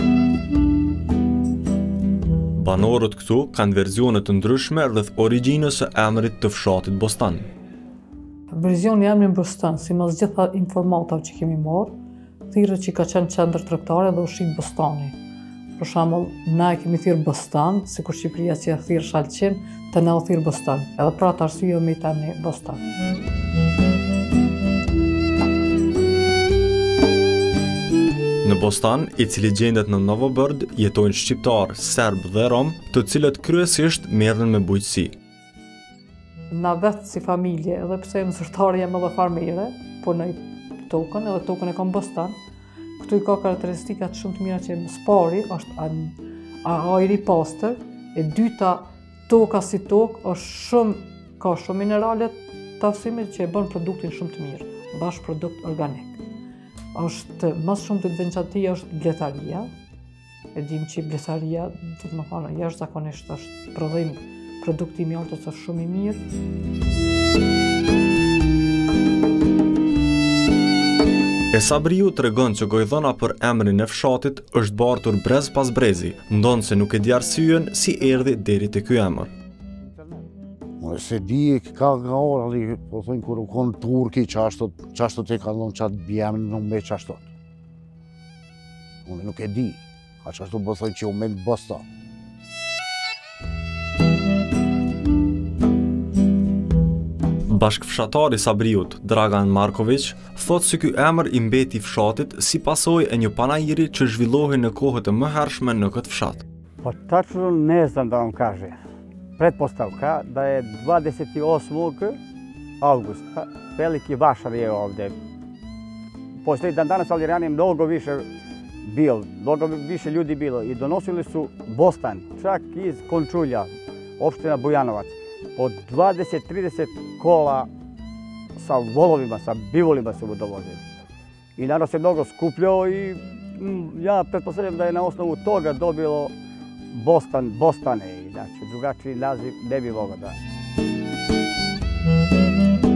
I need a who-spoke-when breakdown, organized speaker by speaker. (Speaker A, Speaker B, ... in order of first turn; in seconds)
Speaker A: 2.6-7.5, 28.4-35.1, 71.5-79.3, 97.5-106.4
Speaker B: 8.5-12.0, 12.5-15.2, 15.8-22.8, 36.5-42.4, 43.0-56.2, 56.9-59.7, 60.5-66.2
Speaker C: 80.8-87.3, 89.0-91.9
Speaker D: 106.8-108.8, 109.4-112.2, 112.8-115.2, 116.5-118.3, 118.8-127.7, 128.6-130.8, 131.6-136.3, 136.9-140.4